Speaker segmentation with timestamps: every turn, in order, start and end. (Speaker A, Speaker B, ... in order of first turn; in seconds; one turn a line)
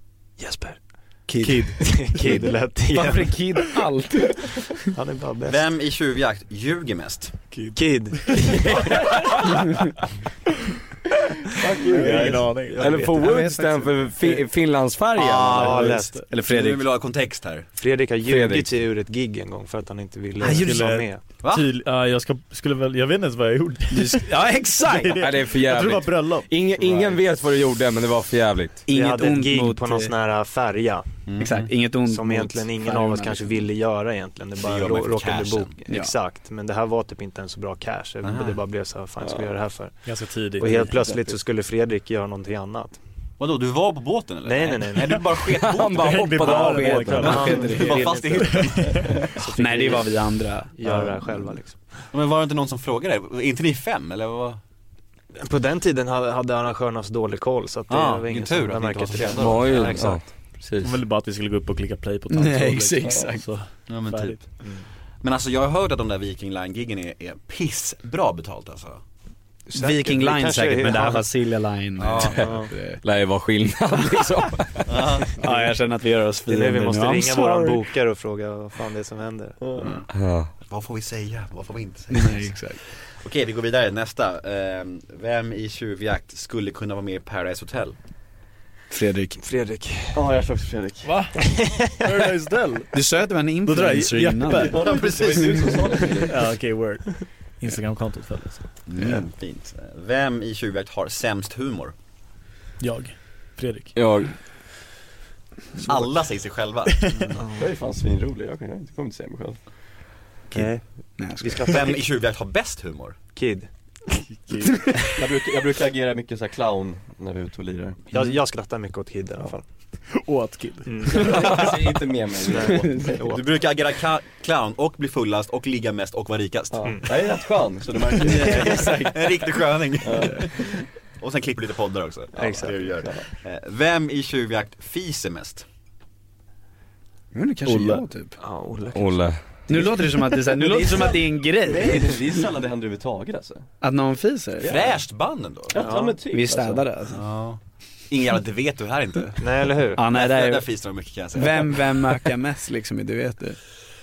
Speaker A: 0.4-3.5
Speaker B: 1.3-4.9
Speaker A: 4.9-5.6
Speaker C: 5.5-7.3
Speaker D: 7.5-8.6
Speaker A: 7.7-9.1
Speaker E: 11.6-12.5
Speaker D: 11.8-13.0
Speaker A: 12.0-14.3
Speaker F: 12.8-16.0
Speaker B: 13.2-14.0
Speaker C: 15.2-15.9
Speaker A: 15.5-16.2
Speaker B: 15.7-16.9
Speaker C: 16.4-17.7
Speaker A: 17.8-21.2
Speaker F: 18.3-18.7
Speaker B: 20.4-20.7
Speaker D: 20.4-26.5
Speaker B: 23.9-25.3
Speaker F: 25.1-28.8
Speaker B: 28.9-30.1
Speaker A: 28.9-31.1
Speaker C: 31.2-31.7
Speaker B: 31.4-33.6
Speaker A: 32.0-43.0
Speaker C: 34.6-35.7
Speaker B: 35.9-36.1
Speaker C: 38.2-38.6
Speaker E: 39.2-39.5
Speaker D: 40.0-41.0
Speaker E: 40.6-41.2
Speaker C: 43.4-49.2
Speaker A: 44.4-45.2
Speaker F: 45.6-47.5
Speaker D: 45.9-49.2
Speaker B: 46.6-48.2
Speaker A: 47.1-48.6
Speaker A: 49.2-52.0
Speaker B: 49.5-51.0
Speaker C: 52.1-54.6
Speaker A: 55.4-60.3
Speaker C: 57.9-60.0
Speaker F: 59.4-60.9
Speaker D: 60.8-64.5
Speaker B: 62.3-63.5
Speaker C: 63.9-64.6
Speaker A: 64.6-64.9
Speaker C: 65.2-69.0
Speaker A: 69.7-71.3
Speaker B: 69.7-73.0
Speaker C: 72.0-72.5
Speaker A: 72.4-72.7
Speaker F: 73.0-74.8
Speaker C: 74.8-75.4
Speaker B: 75.4-77.9
Speaker A: 76.5-80.0
Speaker E: 79.6-79.9
Speaker F: 80.1-80.5
Speaker C: 80.7-88.0
Speaker B: 82.1-82.8
Speaker B: 88.9-89.4
Speaker A: 89.4-90.2
Speaker E: 90.1-91.2
Speaker D: 91.0-91.4
Speaker A: 91.4-92.2
Speaker D: 92.0-92.9
Speaker B: 92.9-94.8
Speaker D: 93.6-95.0
Speaker E: 94.5-96.5
Speaker C: 94.8-95.9
Speaker D: 96.2-98.7
Speaker C: 98.8-101.9
Speaker B: 99.0-99.2
Speaker D: 102.8-104.0
Speaker F: 103.9-104.3
Speaker C: 105.8-107.3
Speaker D: 107.0-107.3
Speaker A: 107.3-107.7
Speaker E: 107.5-109.7
Speaker A: 110.5-112.0
Speaker B: 110.5-111.8
Speaker C: 111.7-113.2
Speaker A: 113.3-113.7
Speaker D: 114.3-114.9
Speaker E: 115.1-118.0
Speaker A: 118.1-119.7
Speaker D: 120.1-121.5
Speaker A: 120.8-121.7
Speaker E: 121.1-123.3
Speaker A: 122.4-123.4
Speaker B: 122.6-123.2
Speaker C: 123.3-127.1
Speaker E: 126.7-129.1
Speaker A: 126.8-127.1
Speaker C: 128.0-135.6
Speaker A: 128.6-129.1
Speaker E: 130.0-130.8
Speaker A: 132.3-132.9
Speaker E: 132.4-133.2
Speaker B: 137.3-138.3
Speaker E: 137.6-138.1
Speaker A: 138.4-139.3
Speaker F: 138.9-139.4
Speaker B: 139.7-142.4
Speaker E: 139.7-143.7
Speaker B: 143.8-144.8
Speaker E: 144.6-145.0
Speaker C: 144.6-145.8
Speaker E: 145.7-146.9
Speaker A: 145.8-146.2
Speaker B: 146.3-147.2
Speaker C: 147.1-152.0
Speaker A: 149.4-150.0
Speaker B: 149.9-150.7
Speaker B: 151.3-153.6